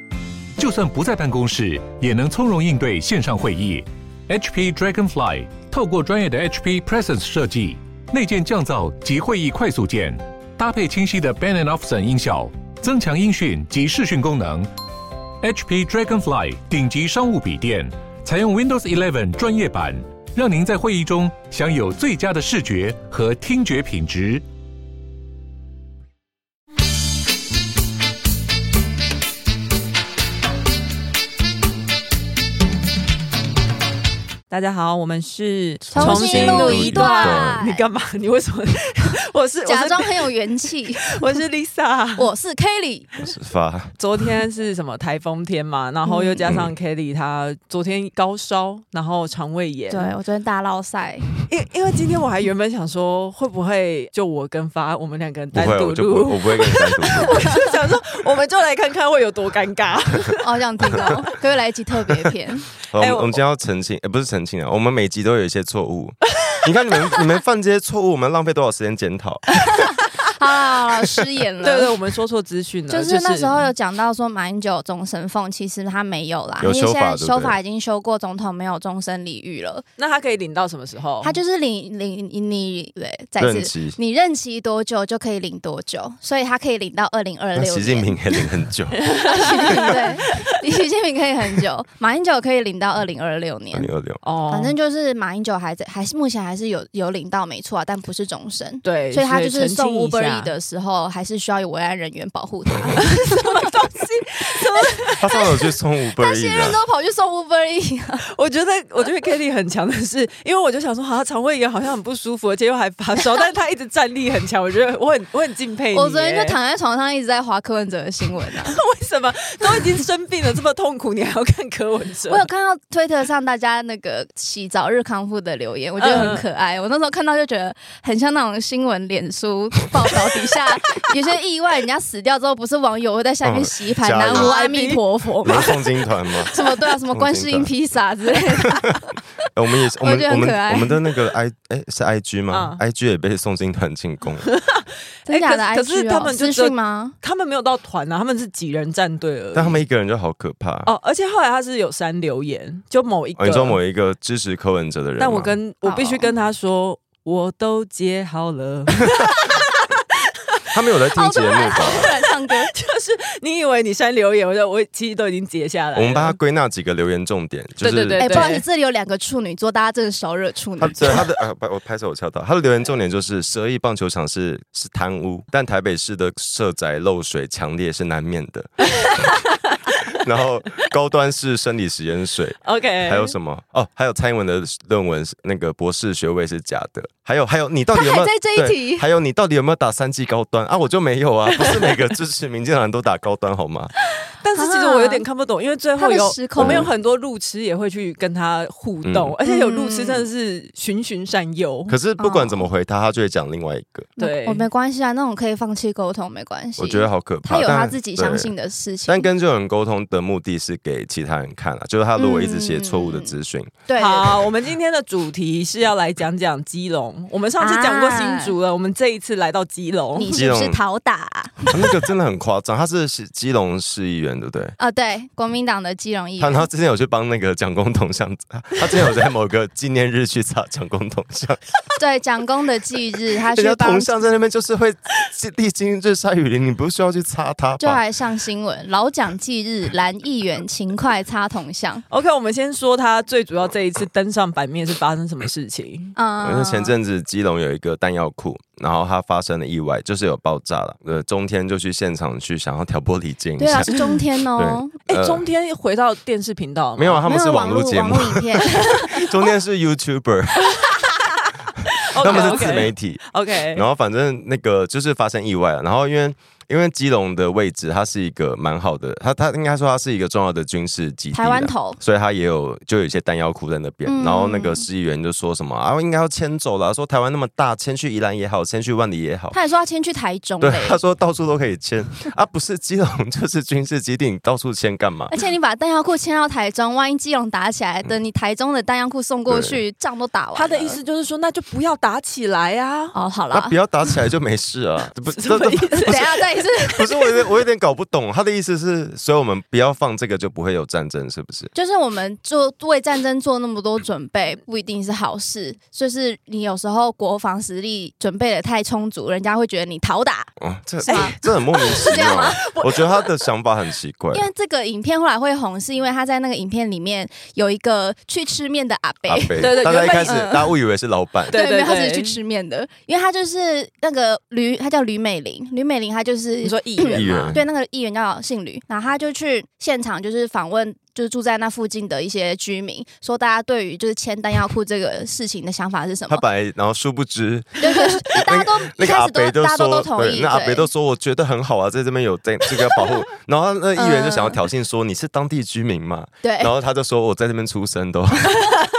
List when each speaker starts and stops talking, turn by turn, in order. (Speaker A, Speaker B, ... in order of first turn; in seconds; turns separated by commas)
Speaker A: 0.6-14.7, Speaker A: 15.4-24.4, Speaker B: 34.5-40.3, Speaker C: 35.9-37.6, Speaker D: 35.9-37.9, Speaker D: 39.7-41.2, Speaker B: 41.1-42.3, Speaker D: 42.2-43.1, Speaker C: 43.2-43.9, Speaker B: 44.0-50.1, Speaker D: 46.0-46.4, Speaker C: 46.5-46.7, Speaker D: 49.9-51.3, Speaker B: 51.5-61.1, Speaker C: 55.5-57.4, Speaker D: 57.3-57.7, Speaker D: 60.4-62.7, Speaker C: 62.9-69.7, Speaker B: 63.0-63.4, Speaker D: 69.5-71.9, Speaker B: 71.6-73.7, Speaker D: 72.9-79.8, Speaker C: 76.6-77.5, Speaker B: 80.0-81.4, Speaker D: 81.2-88.5, Speaker C: 83.4-84.0, Speaker C: 87.6-89.0, Speaker B: 88.9-90.4, Speaker D: 89.2-93.9, Speaker C: 93.7-94.2, Speaker B: 94.2-94.8, Speaker D: 94.5-108.2, Speaker B: 98.8-100.5, Speaker B: 102.8-105.2, Speaker C: 105.2-106.8, Speaker B: 108.3-116.6, Speaker D: 113.2-113.5, Speaker D: 115.9-118.8, Speaker B: 118.5-122.5, Speaker D: 122.3-135.8, Speaker B: 126.0-126.4, Speaker C: 133.4-134.5, Speaker B: 134.3-135.8, Speaker C: 135.4-136.5, Speaker D: 136.5-139.2, Speaker C: 137.1-137.7, Speaker C: 138.7-139.0, Speaker C: 139.5-144.5, Speaker D: 140.0-141.1, Speaker B: 142.5-142.8, Speaker B: 144.4-149.8, Speaker D: 145.3-147.2, Speaker C: 149.5-150.9, Speaker B: 150.8-153.8, Speaker C: 153.4-155.6, Speaker B: 155.2-159.9, Speaker D: 155.8-156.3, Speaker C: 160.7-162.1, Speaker D: 161.2-162.7, Speaker B: 161.7-166.4, Speaker C: 165.9-168.5, Speaker B: 167.8-168.6, Speaker D: 168.2-171.2, Speaker C: 170.8-179.3, Speaker B: 178.9-180.0, Speaker C: 180.1-193.9, Speaker B: 182.6-183.3, Speaker D: 187.9-189.1, Speaker B: 194.4-202.0, Speaker D: 194.6-195.2, Speaker D: 196.0-196.9, Speaker C: 196.6-196.9, Speaker C: 199.0-199.3, Speaker D: 199.5-200.3, Speaker C: 201.9-204.1, Speaker D: 202.2-202.7, Speaker B: 204.2-204.7, Speaker D: 204.2-209.3, Speaker C: 206.8-208.5, Speaker C: 209.1-213.8, Speaker D: 212.2-213.3, Speaker D: 213.9-214.4, Speaker B: 214.0-220.3, Speaker D: 217.6-218.5, Speaker D: 220.2-221.9, Speaker C: 220.3-220.8, Speaker C: 221.7-224.8, Speaker D: 224.8-226.7, Speaker C: 226.4-231.6, Speaker D: 232.0-234.2, Speaker C: 233.5-238.0, Speaker D: 237.8-242.0, Speaker B: 242.1-246.1, Speaker D: 246.2-246.9, Speaker C: 246.4-253.9, Speaker D: 253.6-254.9, Speaker C: 254.6-255.4, Speaker B: 255.1-257.2, Speaker C: 257.0-261.0, Speaker D: 257.3-259.2, Speaker B: 258.7-259.0, Speaker B: 260.8-261.1, Speaker B: 261.9-263.9, Speaker C: 262.2-279.6, Speaker D: 262.3-262.9, Speaker D: 271.3-272.0, Speaker D: 274.1-274.9, Speaker D: 279.5-281.0, Speaker C: 280.6-285.3, Speaker D: 285.3-291.0, Speaker C: 289.5-289.8, Speaker B: 290.6-293.1, Speaker D: 293.1-293.8, Speaker C: 293.5-296.3, Speaker B: 295.4-296.4, Speaker D: 296.0-297.4, Speaker C: 296.9-301.7, Speaker D: 301.7-310.5, Speaker C: 310.6-314.5, Speaker D: 311.0-312.7, Speaker B: 311.1-313.4, Speaker D: 314.3-320.7, Speaker C: 319.3-321.6, Speaker B: 319.6-320.4, Speaker B: 321.5-322.4, Speaker D: 321.5-336.4, Speaker B: 326.6-327.6, Speaker C: 327.1-327.6, Speaker C: 336.3-348.7, Speaker D: 337.8-340.9, Speaker D: 344.0-344.6, Speaker D: 346.4-346.7